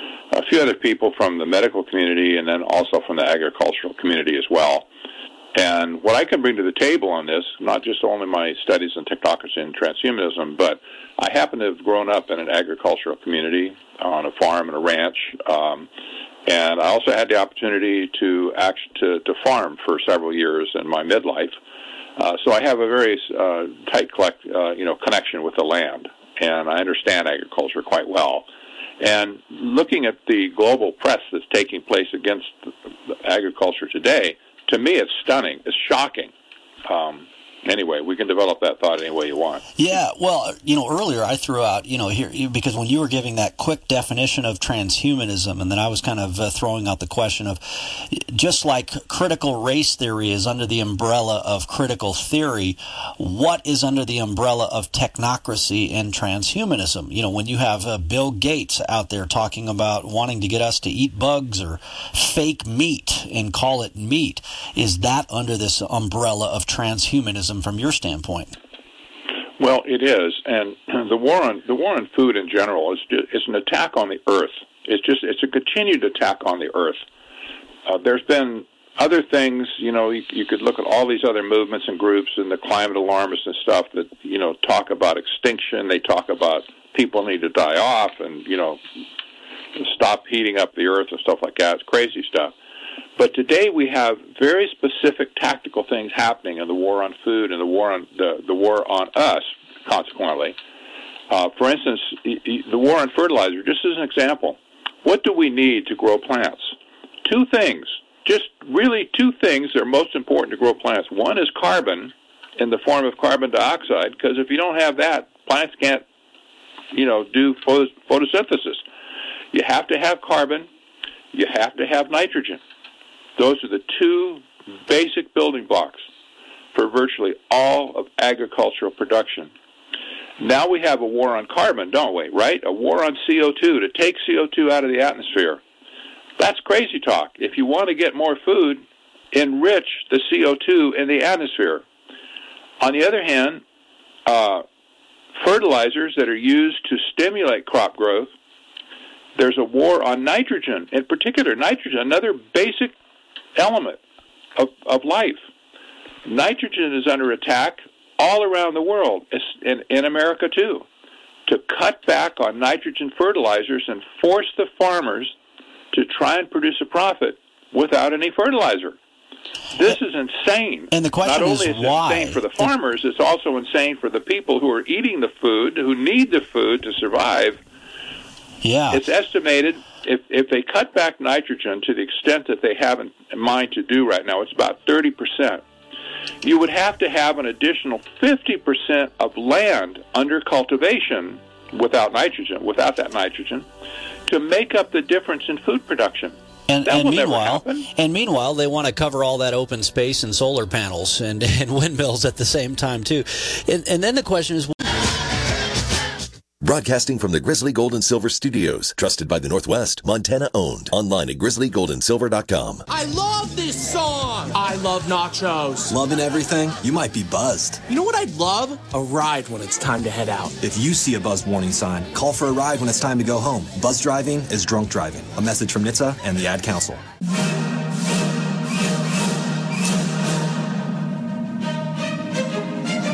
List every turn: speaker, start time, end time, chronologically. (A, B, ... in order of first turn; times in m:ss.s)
0:00.3-0:04.9 A
0:05.5-0:15.9 A
0:16.4-0:21.6 A
0:22.2-0:28.4 A
0:29.0-0:36.3 A
0:36.8-0:39.7 A
0:39.8-1:08.5 B
1:09.6-1:17.0 A
1:17.8-1:28.8 A
1:29.8-1:32.5 A
1:33.2-1:40.6 A
1:41.3-1:46.7 A
1:47.2-1:56.0 A
1:56.9-1:58.8 A
1:59.5-2:00.7 A
2:01.3-2:02.6 A
2:03.4-2:06.0 A
2:06.7-2:09.5 A
2:10.4-2:15.6 A
2:16.4-2:21.8 A
2:22.8-2:23.6 A
2:24.2-2:24.6 A
2:25.4-2:28.3 A
2:29.3-2:32.9 A
2:33.6-2:34.0 A
2:34.6-2:35.4 A
2:36.2-2:40.8 A
2:41.5-2:45.3 A
2:45.9-2:49.0 A
2:49.7-2:57.6 A
2:50.9-2:52.7 B
2:58.6-2:59.0 B
2:58.9-3:05.6 A
3:06.4-3:13.6 A
3:14.3-3:17.8 A
3:16.7-3:24.8 B
3:26.6-3:32.8 C
3:32.9-3:36.0 D
3:35.9-3:37.8 E
3:37.9-3:40.6 D
3:40.6-3:47.0 E